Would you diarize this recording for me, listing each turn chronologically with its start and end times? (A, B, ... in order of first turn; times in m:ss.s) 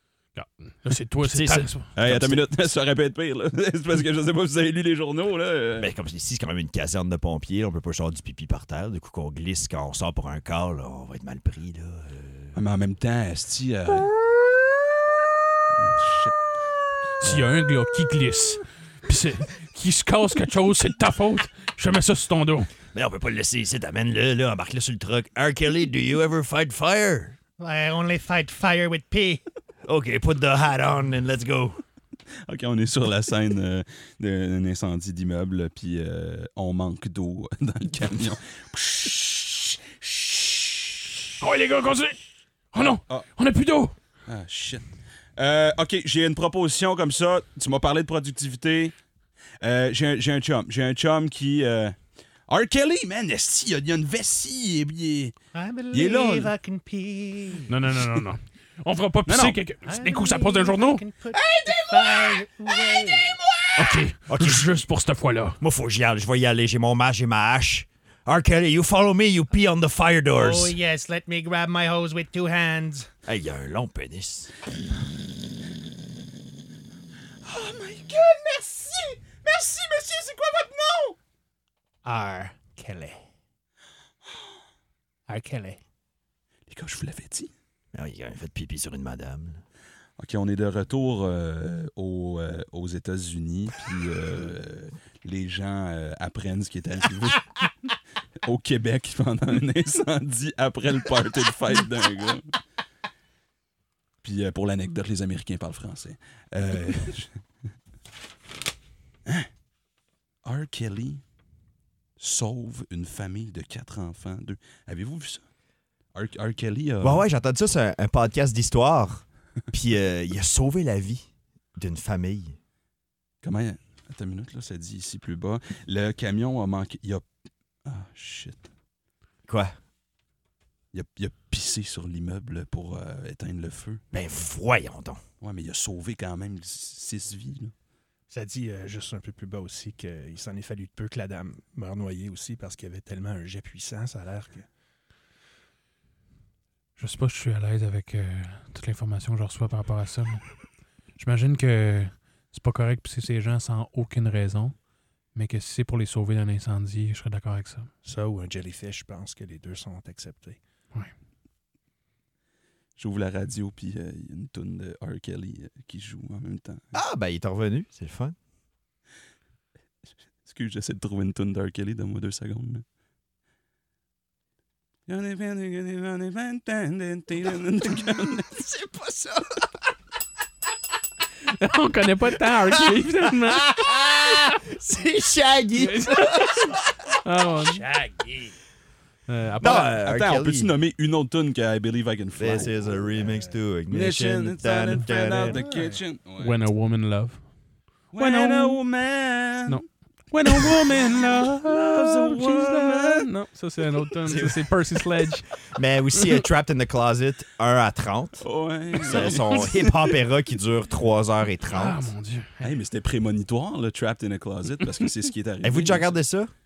0:00.3-0:01.9 A
0:01.2-0:02.4 B
0:02.0-0:05.9 C
0:05.8-0:12.5 B
0:12.5-0:14.1 C
0:15.8-0:16.4 C
0:17.2-0:22.7 A
0:22.9-0:27.4 B
0:27.6-0:29.4 D
0:29.8-0:31.8 B
0:32.4-0:41.0 C
0:41.4-0:42.2 A
0:42.7-0:43.9 A
0:44.2-0:44.8 C
0:45.4-0:48.9 C
0:49.6-0:52.0 C
0:52.5-0:55.3 C
0:55.5-0:57.7 D
0:55.9-0:56.5 C
0:57.7-1:01.0 A
0:59.3-0:59.6 C
0:59.8-1:03.4 D
1:01.3-1:03.7 C
1:03.8-1:05.6 A
1:04.3-1:04.8 B
1:05.6-1:10.8 B
1:10.3-1:13.1 D
1:13.2-1:14.5 B
1:17.4-1:21.2 C
1:22.0-1:23.2 D
1:25.3-1:25.8 D
1:26.7-1:27.5 C
1:27.9-1:29.6 B
1:30.2-1:37.6 C
1:38.4-1:42.5 C
1:44.2-1:47.4 C
1:50.4-1:51.2 C
1:52.2-1:55.4 C
1:56.1-1:57.2 C
1:57.0-2:02.6 B
2:03.4-2:07.2 C
2:07.8-2:08.7 C
2:09.5-2:09.7 B
2:10.9-2:14.0 C
2:14.1-2:15.2 B
2:15.4-2:17.7 C
2:18.3-2:24.7 D
2:27.0-2:30.5 A
2:31.2-2:34.7 A
2:35.3-2:37.9 A
2:38.0-2:40.6 D
2:43.0-2:46.8 C
2:46.9-2:48.4 B
2:50.4-2:52.8 C
2:55.1-2:58.6 C
2:58.5-2:59.7 B
3:01.5-3:03.7 A
3:02.7-3:06.8 B
3:05.8-3:07.8 A
3:07.6-3:08.5 D
3:09.3-3:10.0 A
3:09.6-3:10.7 B
3:09.9-3:12.9 C
3:12.4-3:15.6 B
3:13.1-3:13.6 D
3:13.9-3:16.6 C
3:15.4-3:16.0 D
3:16.4-3:17.4 A
3:18.1-3:19.8 C
3:18.2-3:18.8 A
3:19.7-3:25.5 A
3:20.5-3:23.3 C
3:24.3-3:24.6 B
3:25.7-3:32.1 B
3:28.4-3:30.2 C
3:31.7-3:32.7 A
3:32.6-3:36.2 C
3:35.6-3:36.5 B